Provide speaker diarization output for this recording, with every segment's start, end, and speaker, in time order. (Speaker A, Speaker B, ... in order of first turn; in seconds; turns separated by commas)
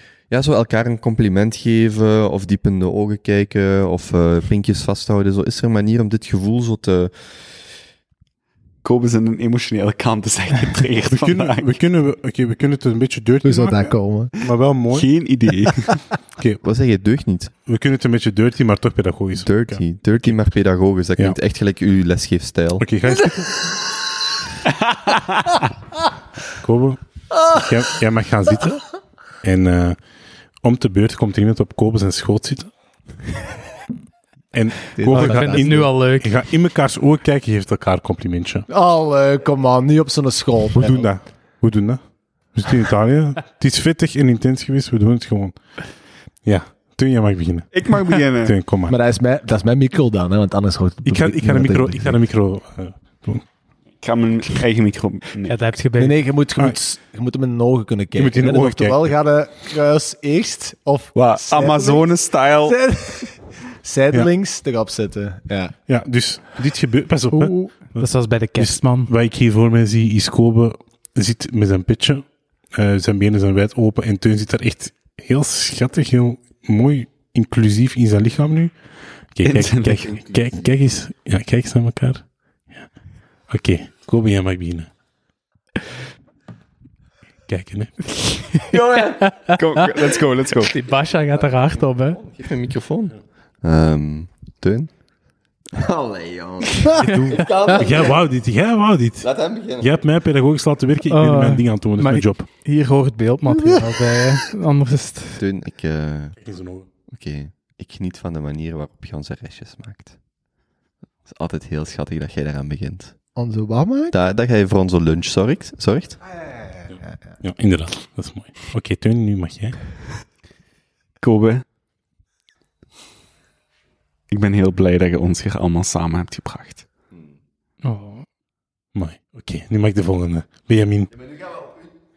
Speaker A: 0.3-7.6, Speaker B: 8.8-11.8, Speaker C: 11.1-15.2, Speaker D: 13.4-14.3, Speaker B: 14.9-16.0, Speaker C: 16.3-16.6, Speaker A: 16.6-17.5, Speaker C: 17.7-19.8, Speaker A: 19.4-22.9, Speaker C: 22.8-23.5, Speaker B: 24.9-25.6, Speaker C: 26.6-32.7, Speaker C: 34.5-38.7, Speaker D: 35.0-35.9, Speaker E: 35.0-36.3, Speaker D: 38.7-41.1, Speaker C: 40.8-48.9, Speaker B: 47.7-48.6, Speaker D: 48.9-52.2, Speaker C: 51.1-53.5, Speaker B: 54.0-55.6, Speaker E: 55.5-56.4, Speaker D: 56.0-65.8, Speaker C: 58.2-59.1, Speaker B: 61.1-62.8, Speaker C: 65.9-82.9, Speaker E: 67.3-69.1, Speaker B: 79.4-80.4, Speaker C: 83.5-84.9, Speaker C: 87.5-88.4, Speaker E: 88.2-88.7, Speaker A: 88.7-89.3, Speaker E: 89.2-89.6, Speaker B: 89.5-90.7, Speaker E: 90.5-92.3, Speaker A: 91.8-95.0, Speaker A: 95.7-98.2, Speaker B: 97.0-97.6, Speaker E: 97.2-97.6, Speaker C: 97.8-102.5, Speaker A: 99.2-99.9, Speaker E: 101.1-105.4, Speaker A: 105.4-106.4, Speaker C: 106.4-106.9, Speaker A: 107.1-110.2, Speaker A: 111.3-113.2, Speaker D: 113.4-114.2, Speaker A: 114.1-116.2, Speaker D: 116.3-117.2, Speaker C: 116.9-119.8, Speaker B: 121.2-121.6, Speaker B: 124.3-126.8, Speaker E: 127.8-128.3, Speaker C: 128.9-131.3